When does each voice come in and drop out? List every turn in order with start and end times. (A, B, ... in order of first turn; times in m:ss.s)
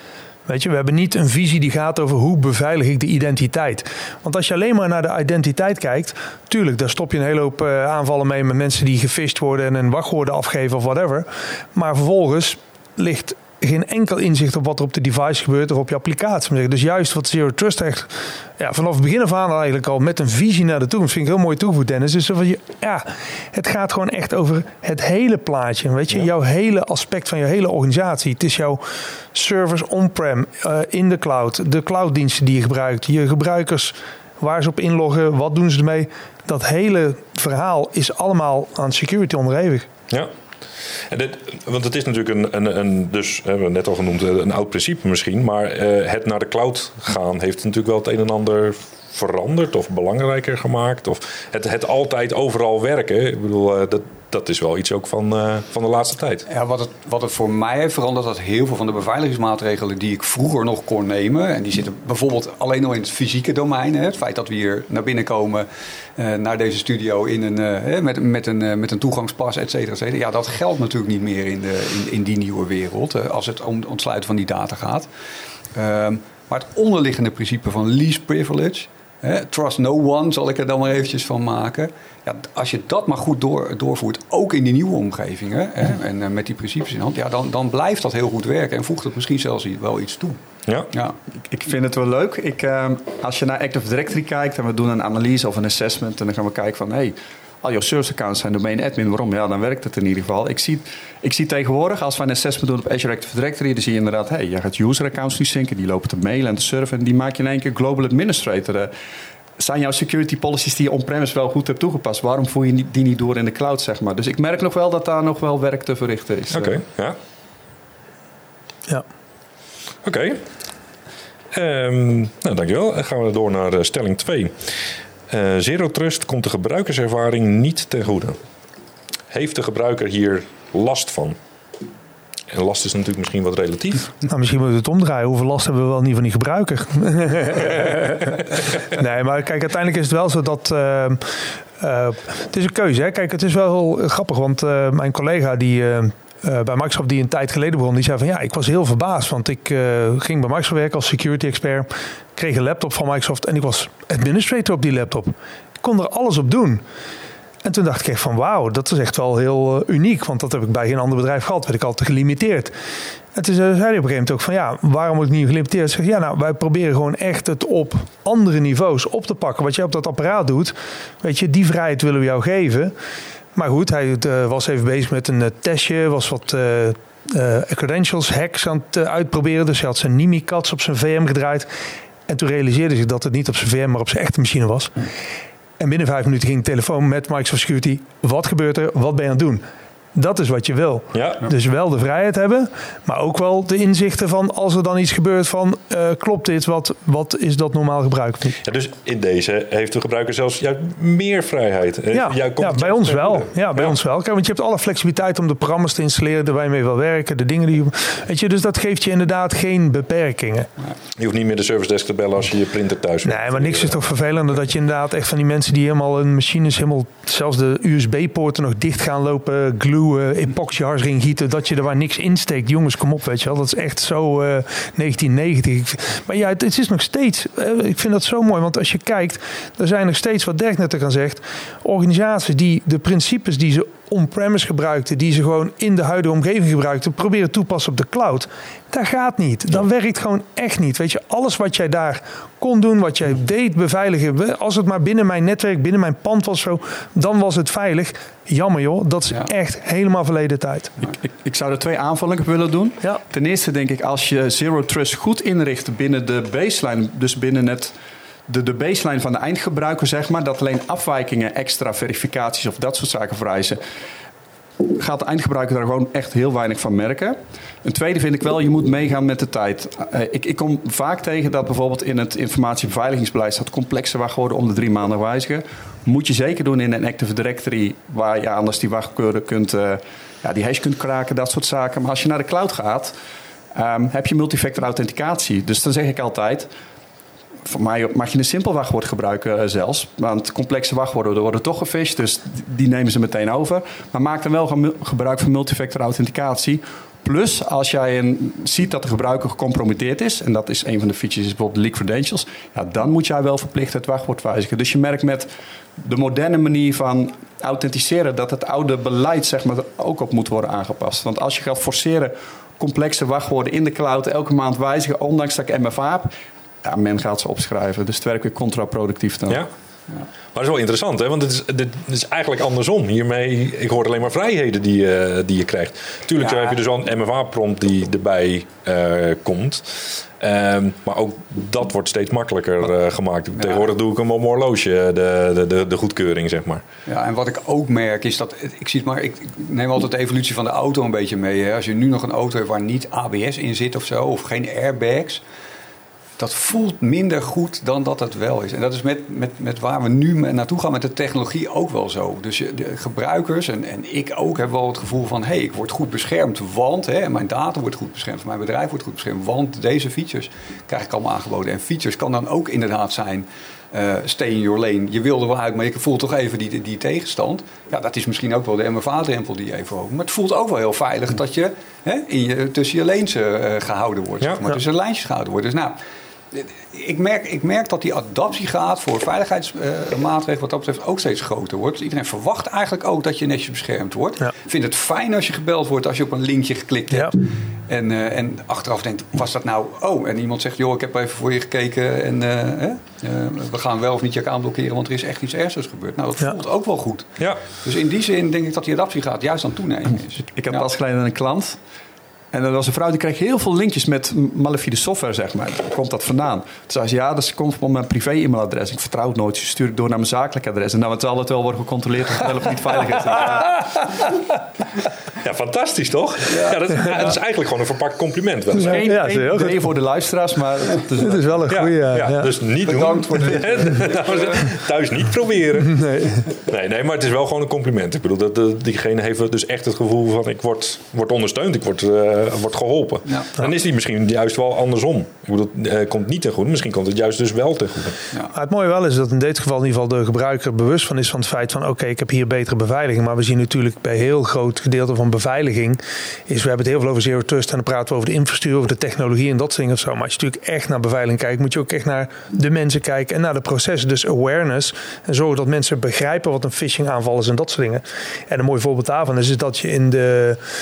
0:00.4-0:28.8 A
0:29.3-0:39.9 A
0:41.1-0:56.4 B
0:56.5-1:15.1 C
1:15.7-1:30.4 C
1:30.9-1:31.2 C
1:31.4-1:48.9 D
1:49.6-1:56.8 D
1:56.5-1:57.2 B
2:00.0-2:00.4 B
2:01.5-2:08.4 B
2:09.3-2:11.4 B
2:12.5-2:14.1 B
2:14.3-2:18.4 A
2:18.9-2:36.8 A
2:37.6-2:42.7 A
2:43.3-2:52.9 A
2:53.5-3:01.7 A
3:02.3-3:05.0 A
3:05.8-3:09.6 A
3:10.1-3:18.6 A
3:11.1-3:11.4 B
3:18.6-3:24.0 B
3:22.1-3:30.7 A
3:31.2-3:34.0 B
3:33.2-4:10.9 A
4:11.0-4:17.9 D
4:18.5-4:23.8 D
4:24.9-4:43.1 D
4:43.7-4:46.7 D
4:47.6-5:16.3 D
5:16.8-5:19.6 D
5:20.5-5:36.8 B
5:26.4-5:26.8 C
5:33.6-5:33.8 C
5:37.1-5:45.4 C
5:46.4-6:16.0 C
6:16.5-6:40.8 C
6:40.6-6:41.8 D
6:42.5-6:53.7 D
6:55.4-6:59.1 B
6:56.5-6:57.1 C
6:58.7-6:59.9 A
6:58.8-7:01.5 D
7:01.2-7:02.5 A
7:01.7-7:18.2 B
7:02.8-7:04.7 C
7:05.9-7:06.4 A
7:18.5-7:40.6 A